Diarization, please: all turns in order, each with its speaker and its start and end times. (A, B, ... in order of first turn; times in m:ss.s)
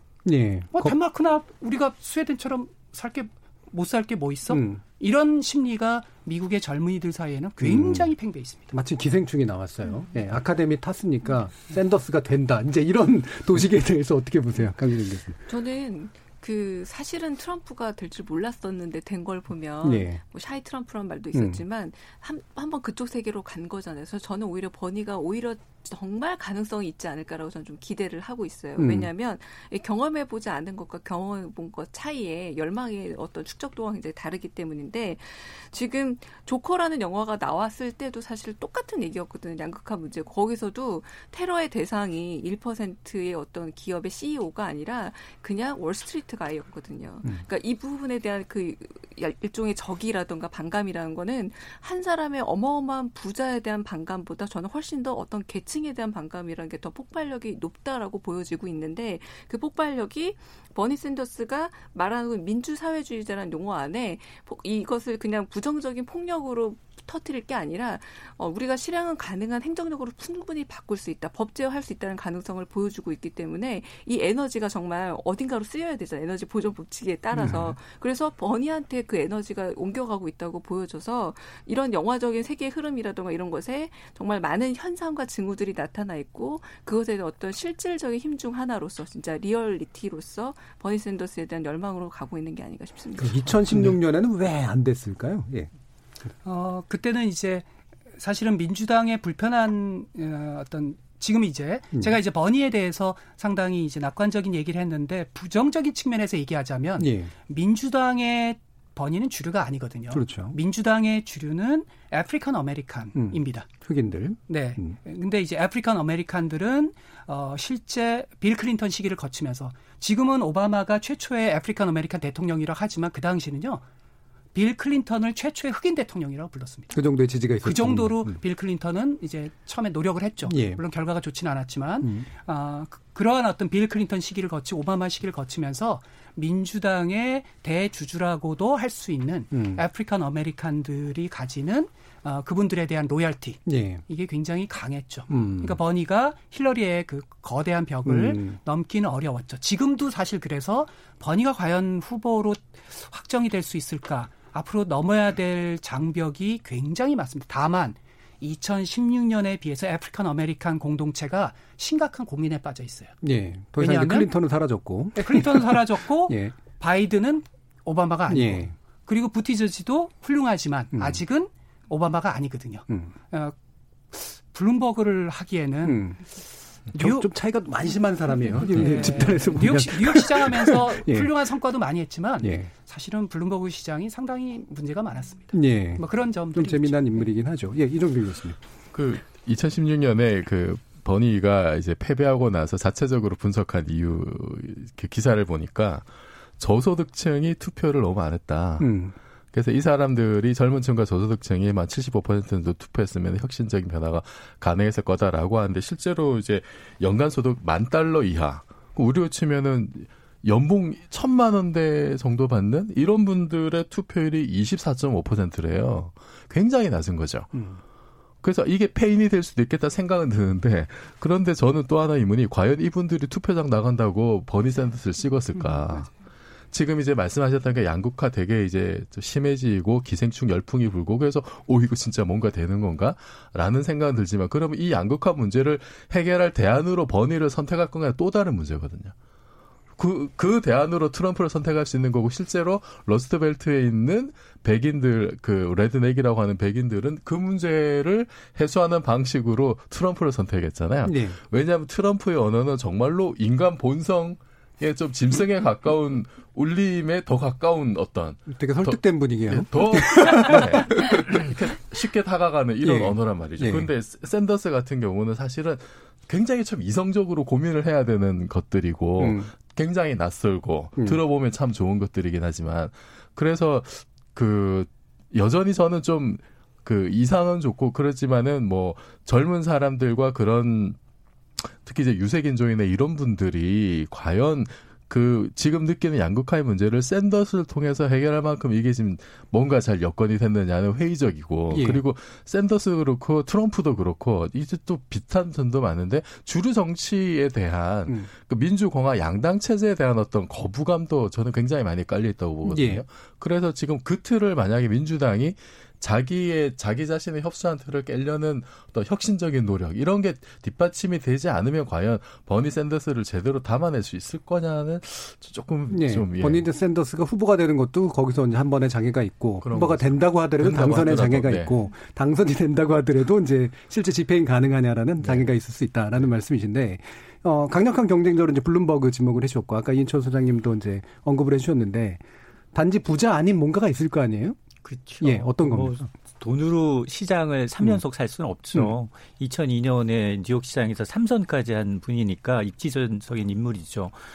0:00.2-0:01.0 A
0:00.7-0:08.7 B
0:04.5-0:04.8 A
0:07.6-0:08.1 A
0:08.7-0:15.4 A
0:15.5-1:33.8 C
0:19.8-0:20.2 A
0:21.3-0:21.6 A
0:28.8-0:29.1 A
1:17.3-1:17.8 A
1:33.2-1:35.7 A
1:36.4-1:53.7 B
1:47.0-1:47.3 A
1:50.1-1:50.6 A
1:53.1-1:54.9 A
1:54.5-2:03.8 B
2:04.5-2:06.9 B
2:06.9-2:08.4 A
2:07.6-2:43.2 B
2:10.4-2:10.8 A
2:19.5-2:19.8 A
2:23.6-2:24.0 A
2:25.3-2:25.8 A
2:28.0-2:28.6 A
2:43.2-2:46.6 A
2:43.8-2:44.3 B
2:45.1-2:53.5 B
2:48.3-2:48.7 A
2:50.9-2:51.2 A
2:54.1-2:56.2 B
2:55.8-2:56.2 A
2:56.9-2:57.3 B
2:56.9-3:01.3 A
2:58.5-3:07.2 B
3:02.4-3:02.7 A
3:05.5-3:08.6 A
3:08.9-3:16.1 D
3:16.6-3:37.5 D
3:18.8-3:19.1 A
3:37.5-3:37.8 A
3:38.4-3:46.1 D
3:45.5-3:46.0 B
3:46.7-3:59.1 D
4:00.0-4:41.0 D
4:11.0-4:11.4 A
4:18.5-4:21.0 A
4:22.8-4:23.9 A
4:29.2-4:29.5 A
4:41.8-5:16.6 D
4:51.7-4:52.0 A
5:02.6-5:03.0 A
5:15.9-5:34.6 A
5:19.6-5:21.7 D
5:34.8-5:44.2 E
5:35.2-5:36.1 A